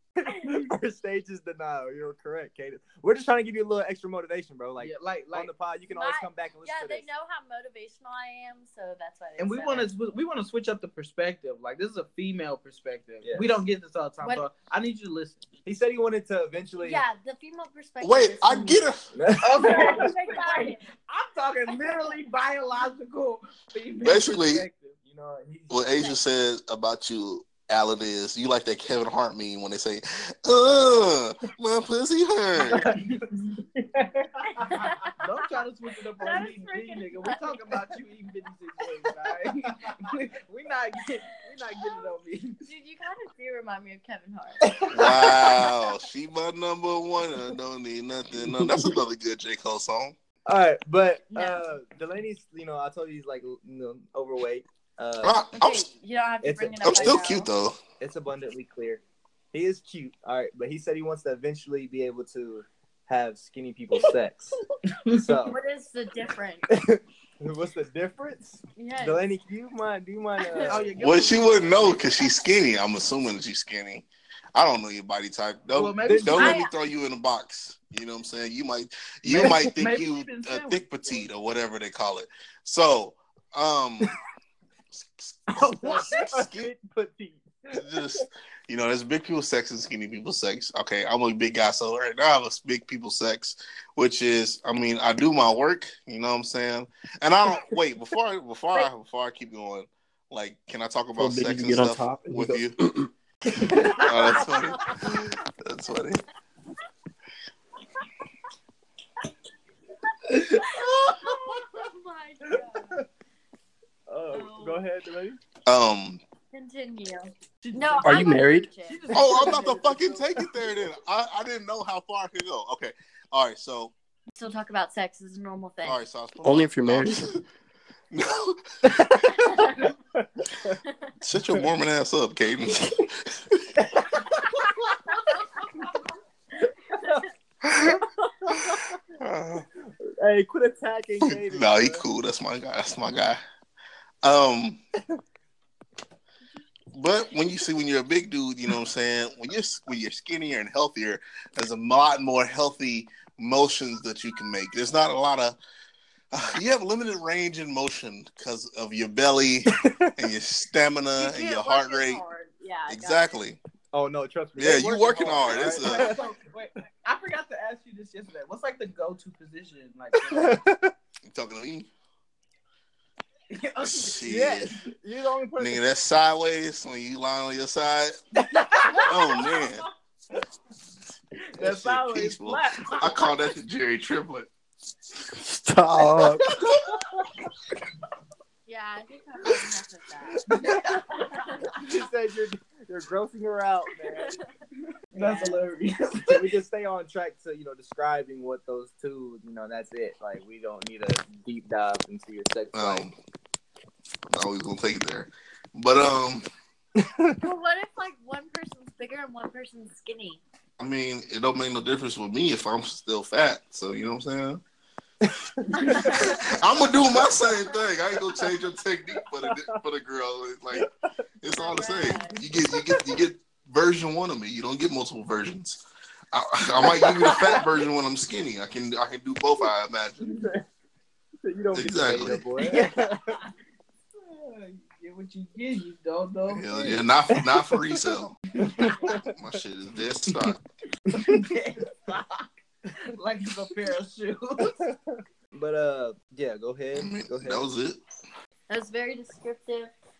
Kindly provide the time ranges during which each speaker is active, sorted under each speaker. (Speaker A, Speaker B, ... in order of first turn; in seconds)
Speaker A: 0.2-7.1, 13.2-13.6, 15.7-17.0, 19.1-20.1, 25.1-25.9, 32.7-33.2, 44.7-45.5, 50.5-55.4, 56.4-57.2, 58.0-59.0, 59.5-64.6, 65.1-65.6, 66.7-70.9, 76.0-76.6, 85.6-87.8, 103.7-104.0, 114.1-115.4, 128.8-130.8, 133.9-134.4, 140.1-142.1, 159.7-160.1, 163.9-166.3, 170.2-170.9, 174.2-175.8, 191.7-194.4, 196.3-203.1, 206.9-207.4, 215.2-216.4, 222.9-223.2, 226.8-227.4, 230.3-230.6, 231.4-233.4, 237.3-237.9, 238.6-239.3, 241.1-241.4, 245.5-247.6
Speaker B: 4.8-5.5, 9.4-15.4, 19.4-24.9, 32.7-33.6, 34.4-42.6, 64.9-65.2, 70.6-72.1, 75.7-76.6, 79.3-81.2, 85.6-86.1, 117.6-120.2, 165.6-170.6, 173.5-174.3, 178.6-179.2, 181.6-183.3, 190.5-191.8, 195.1-196.5, 232.6-233.5, 234.1-237.0, 238.6-239.2, 241.1-244.8
Speaker C: 5.9-9.9, 16.8-18.9, 19.6-20.9, 34.6-35.4, 36.2-37.8, 42.6-45.8, 51.3-51.6, 55.5-57.5, 65.1-66.7, 68.8-69.2, 70.4-70.8, 76.3-76.7, 110.2-113.0, 114.3-114.8, 116.5-119.3, 124.3-126.0, 129.4-129.9, 161.2-163.3, 188.7-190.5, 191.3-191.7, 194.1-194.4, 195.1-195.6, 207.4-210.4, 215.8-216.5, 221.5-222.4, 248.7-249.9
Speaker D: 18.0-19.1, 24.0-24.7, 25.7-32.9, 44.9-50.1, 55.2-55.9, 56.8-57.8, 71.0-84.1, 84.9-86.5, 87.7-102.8, 103.9-105.0, 105.6-106.2, 115.7-116.2, 119.1-123.9, 125.8-127.4, 128.1-128.6, 131.2-133.6, 137.6-138.0, 139.2-139.7, 141.2-143.4, 144.2-144.8, 146.9-155.6, 156.3-162.2, 162.9-163.6, 164.6-166.2, 171.3-171.9, 173.8-174.8, 175.6-178.2, 178.9-179.9, 181.6-184.5, 202.7-203.1, 204.3-206.4, 210.8-214.6, 215.9-220.9, 221.4-225.8, 226.3-230.3, 231.7-232.4, 236.5-238.4, 239.0-240.6, 246.9-248.0
Speaker E: 101.2-103.1, 118.0-118.7, 126.4-127.4, 185.3-186.5